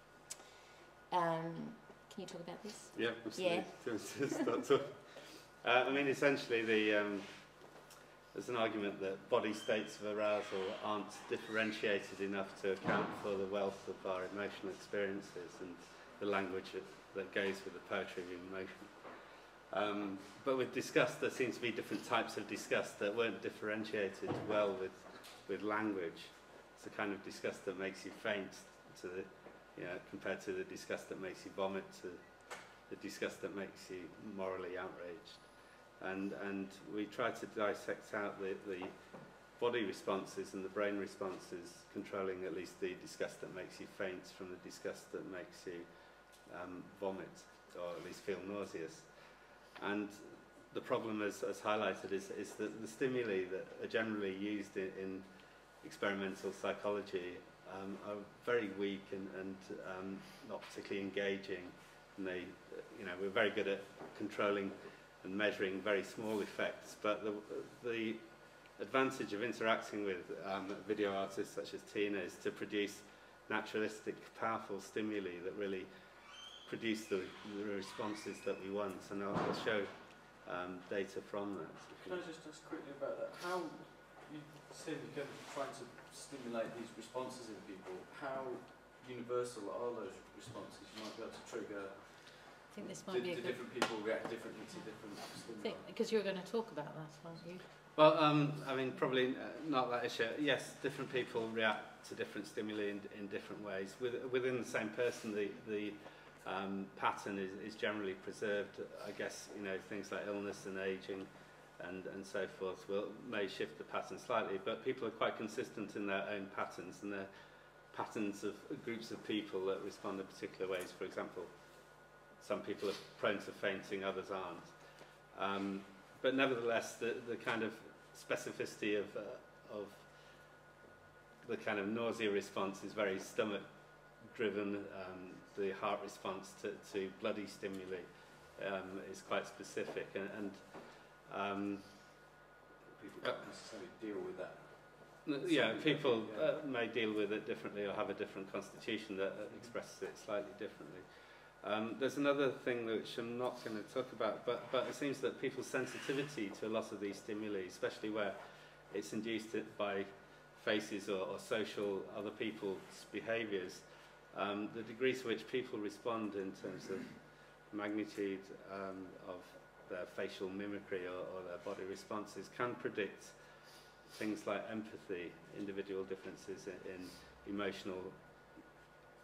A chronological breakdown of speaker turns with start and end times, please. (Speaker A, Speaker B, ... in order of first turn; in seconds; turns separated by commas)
Speaker A: 1.1-4.3, Speaker B: 2.9-82.3, Speaker C: 82.0-95.9, Speaker D: 92.7-93.8, Speaker D: 94.7-97.8, Speaker B: 97.9-130.6, Speaker B: 131.4-142.3, Speaker C: 142.9-146.6, Speaker B: 143.2-143.4, Speaker B: 145.2-178.6, Speaker C: 149.4-149.8